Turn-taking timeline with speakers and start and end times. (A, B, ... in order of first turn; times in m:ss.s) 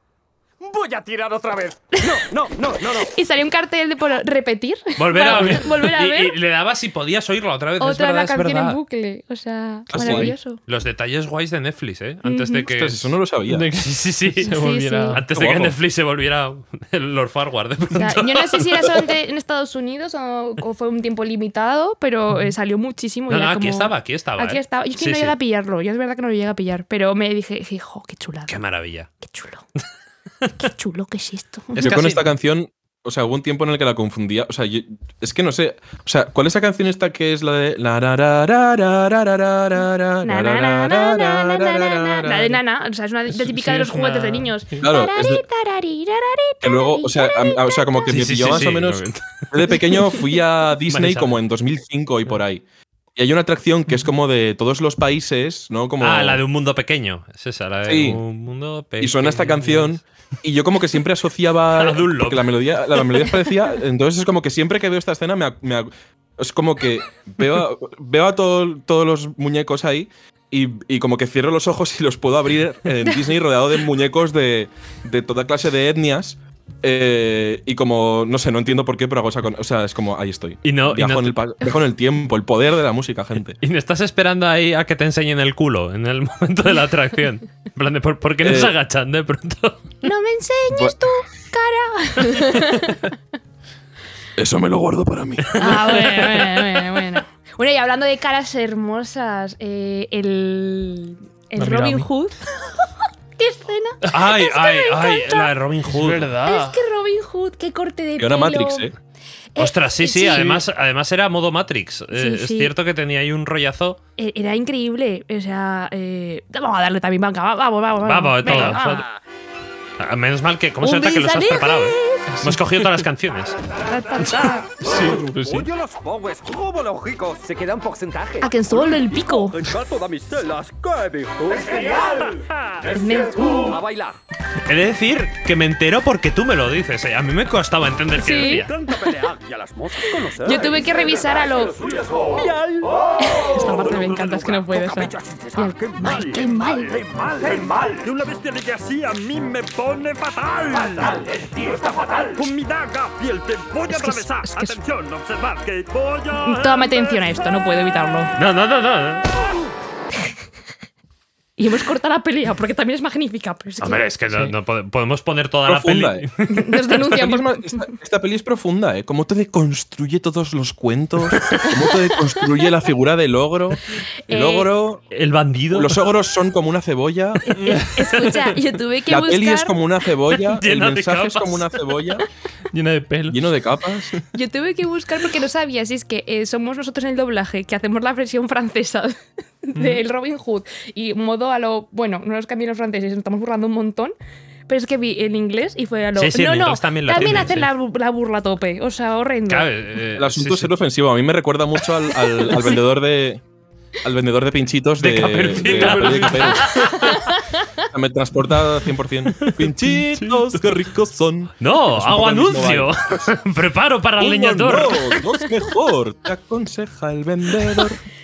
0:00.6-0:03.1 A
0:03.0-0:06.4 B
0:05.0-0:08.8 C
0:05.3-0:05.6 D
0:07.8-0:10.6 B
0:09.9-0:10.3 E
0:10.0-0:13.1 C
0:12.2-0:12.7 B
0:12.7-0:13.7 E
0:13.5-0:15.2 D
0:13.7-0:14.5 C
0:14.4-0:15.2 B
0:15.1-0:18.9 C
0:15.3-0:15.8 E
0:18.0-0:28.6 B
0:23.3-0:25.3 C
0:28.5-0:29.1 C
0:29.2-0:29.6 B
0:30.6-0:32.0 B
0:31.8-0:32.3 C
0:31.8-0:42.6 E
0:40.2-0:48.1 B
0:43.3-0:44.9 D
0:44.8-0:45.4 E
0:46.6-0:52.6 E
0:48.1-0:49.8 C
0:50.0-0:50.2 B
0:50.9-0:51.4 C
0:53.2-0:56.4 E
0:56.0-1:00.0 C
0:57.8-0:58.2 E
0:59.0-1:23.6 E
1:01.7-1:02.5 C
1:20.6-1:21.6 C
1:23.6-1:29.9 C
1:28.4-1:28.8 E
1:30.0-1:33.1 B
1:30.7-1:31.1 E
1:34.4-1:36.1 E
1:35.5-1:36.2 C
1:35.6-1:45.5 B
1:41.6-1:42.1 D
1:44.1-1:46.3 C
1:45.9-1:46.8 D
1:46.4-1:48.9 B
1:48.2-1:48.9 E
1:49.6-1:50.5 B
1:49.6-1:54.0 C
1:50.3-1:50.6 D
1:52.1-1:52.7 B
1:54.2-1:59.0 B
1:58.0-1:59.0 C
1:58.5-1:58.8 D
1:58.9-1:59.2 A
2:00.0-2:03.6 C
2:00.8-2:02.3 B
2:02.3-2:03.0 D
2:03.9-2:04.7 B
2:04.8-2:05.7 D
2:04.9-2:14.2 A
2:08.4-2:09.6 B
2:12.9-2:13.8 B
2:14.7-2:18.7 C
2:18.2-2:18.9 B
2:18.4-2:37.2 A
2:20.4-2:21.8 B
2:23.2-2:27.0 B
2:33.9-2:34.8 B
2:36.4-2:38.3 B
2:38.4-2:39.3 C
2:41.6-2:44.0 B
2:43.8-2:46.8 C
2:45.7-2:46.3 E
2:46.5-2:47.9 B
2:47.0-2:55.0 E
2:51.8-2:52.4 B
2:54.3-2:54.7 B
2:55.1-2:56.0 C
2:55.7-2:57.6 E
2:57.5-2:59.8 B
2:57.6-2:57.9 D
2:59.1-3:02.2 E
3:00.5-3:01.8 C
3:02.7-3:03.5 D
3:03.3-3:04.1 E
3:04.3-3:14.2 B
3:09.8-3:10.0 D
3:14.7-3:19.7 B
3:16.2-3:17.7 C
3:19.5-3:20.7 C
3:20.2-3:23.4 E
3:24.0-3:26.8 E
3:25.0-3:27.3 C
3:25.5-3:27.1 D
3:27.0-3:27.8 B
3:27.9-3:33.3 E
3:29.4-3:29.7 C
3:31.6-3:35.2 C
3:34.2-3:38.0 E